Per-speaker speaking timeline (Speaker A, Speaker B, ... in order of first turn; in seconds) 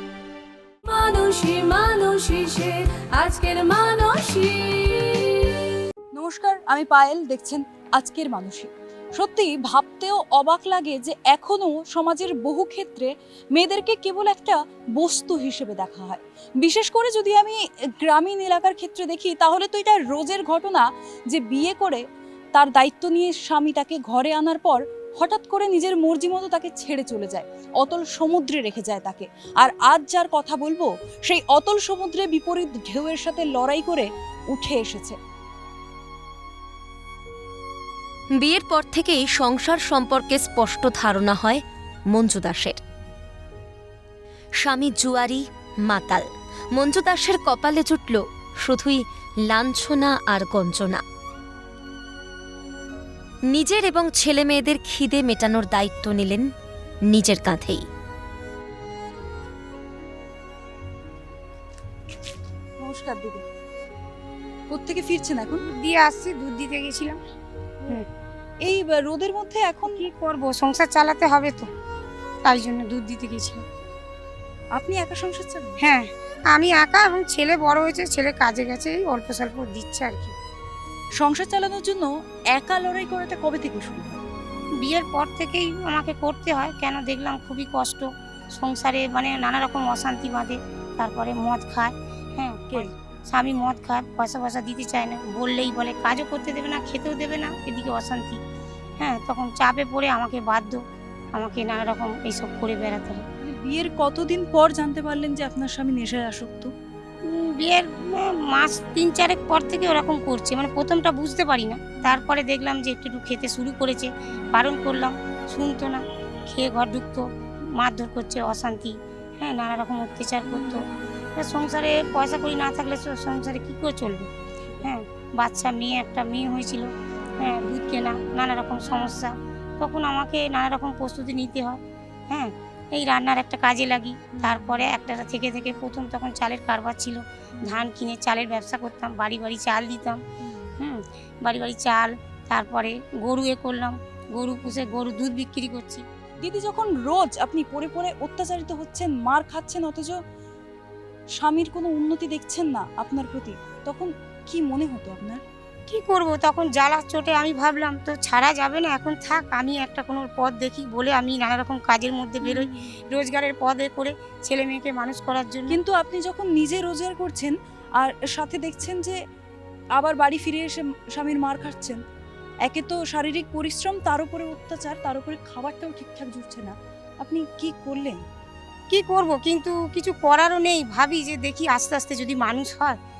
Speaker A: 0.8-5.7
Speaker B: 6.1-35.2, 62.8-63.4, 64.7-65.6, 68.6-70.0, 74.7-75.8, 81.2-84.2, 103.4-106.7, 137.6-137.8, 140.4-140.7, 146.4-150.2, 151.4-155.4, 165.7-169.2, 169.9-172.0, 172.6-178.2
Speaker C: 38.3-42.8, 44.6-51.0, 53.5-56.5, 57.1-57.9
Speaker D: 65.6-67.2, 69.9-71.7, 72.5-73.6, 75.8-80.3, 84.8-98.4, 99.0-100.8, 101.3-103.2, 107.2-120.8, 121.4-124.3, 124.8-126.9, 127.4-140.2, 140.8-146.0, 155.9-165.8, 178.9-183.0